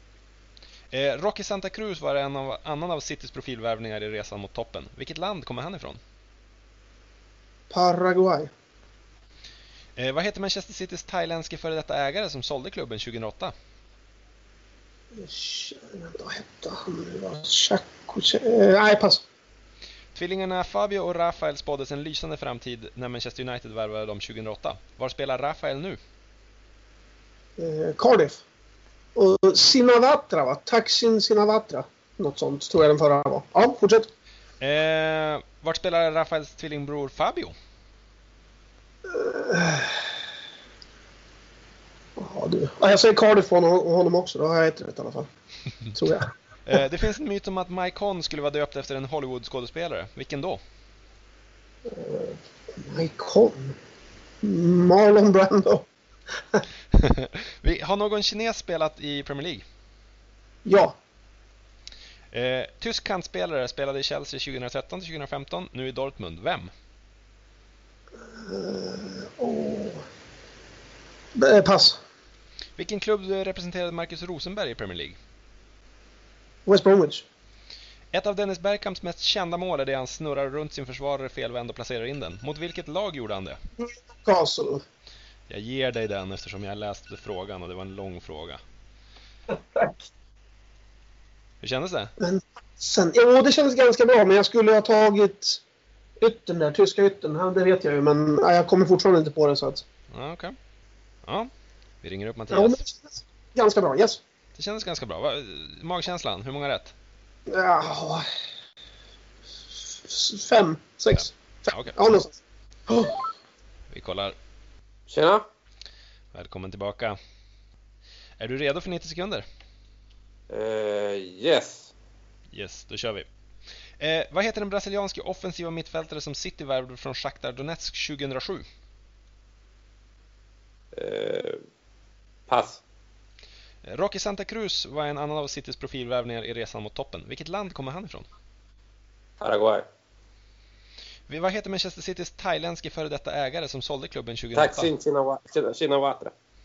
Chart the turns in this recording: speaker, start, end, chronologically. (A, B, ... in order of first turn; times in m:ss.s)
0:00.9-0:06.0 A
0:07.7-0:08.5 B
0:10.0-0:13.5 A
0:15.2-0:19.2 B
0:20.1-0:26.0 A
0:27.6-0:28.4 B
0:29.2-0:34.1 B
0:34.6-0:37.6 A
0:39.1-0:40.0 B
0:42.2-0:45.3 B
0:45.9-0:46.8 B
0:46.7-0:50.6 A
0:51.9-0:53.8 B
0:54.4-0:55.9 B
0:56.9-0:59.6 A
1:00.7-1:01.0 B
1:02.3-1:06.7 A
1:08.4-1:10.0 B
1:11.4-1:12.0 B
1:12.8-1:15.2 A
1:16.7-1:17.2 B
1:18.1-1:23.6 A
1:23.8-1:24.8 B
1:25.5-1:28.6 A
1:31.6-1:32.1 A
1:32.2-1:35.6 B
1:36.2-1:39.8 B
1:40.1-1:40.6 A
1:41.2-1:41.5 A
1:42.0-1:42.8 A
1:42.5-1:44.2 B
1:44.6-1:46.9 A
1:47.5-1:48.2 B
1:50.0-1:53.2 B
1:51.1-1:52.0 A
1:53.9-1:54.4 A
1:55.1-1:55.4 C
1:56.3-1:57.2 A
1:58.4-1:59.4 A
2:00.5-2:01.9 C
2:02.5-2:03.3 A
2:04.0-2:08.6 A
2:10.9-2:11.6 C
2:12.5-2:12.8 C
2:13.8-2:18.3 A
2:19.4-2:19.9 C
2:21.3-2:24.9 A
2:24.6-2:26.3 C